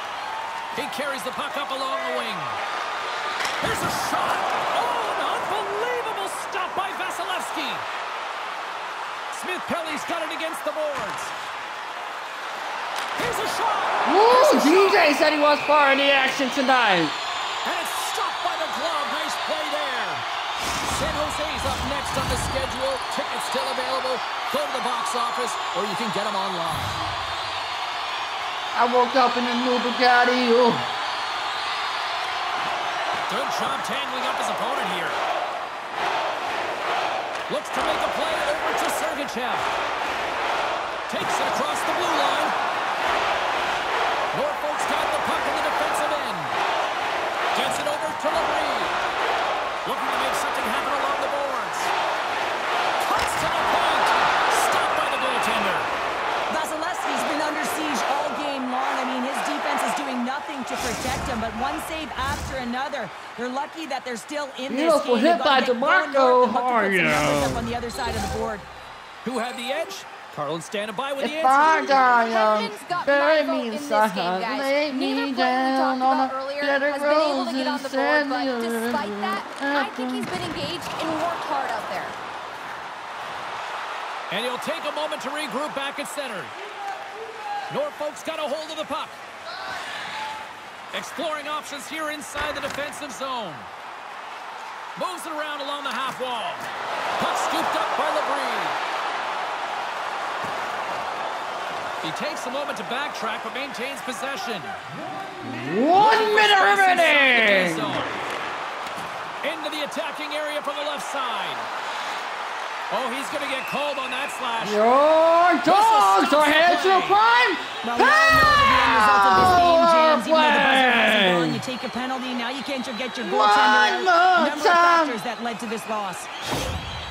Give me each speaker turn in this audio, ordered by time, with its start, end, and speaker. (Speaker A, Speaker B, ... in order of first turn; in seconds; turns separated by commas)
Speaker A: 0.8-2.6, Speaker A: 3.6-7.8, Speaker A: 9.3-11.3, Speaker A: 13.2-15.1, Speaker B: 14.1-17.2, Speaker A: 17.6-20.2, Speaker A: 20.9-27.0, Speaker B: 28.7-30.9, Speaker A: 33.3-35.2, Speaker A: 37.5-39.7, Speaker A: 41.1-42.5, Speaker A: 44.3-46.5, Speaker A: 47.5-48.9, Speaker A: 49.9-51.9, Speaker A: 53.0-55.9, Speaker C: 56.5-68.7, Speaker B: 64.7-67.7, Speaker A: 69.2-72.0, Speaker B: 71.2-80.3, Speaker D: 72.0-82.2, Speaker A: 84.3-86.5, Speaker A: 87.7-89.2, Speaker A: 90.9-93.7, Speaker A: 95.0-96.7, Speaker A: 97.2-98.8, Speaker A: 102.0-104.8, Speaker B: 105.4-108.0, Speaker A: 105.9-108.2, Speaker A: 109.4-111.7, Speaker A: 112.9-114.8, Speaker B: 114.6-121.6, Speaker A: 115.7-117.2, Speaker C: 117.8-126.3, Speaker B: 123.2-125.2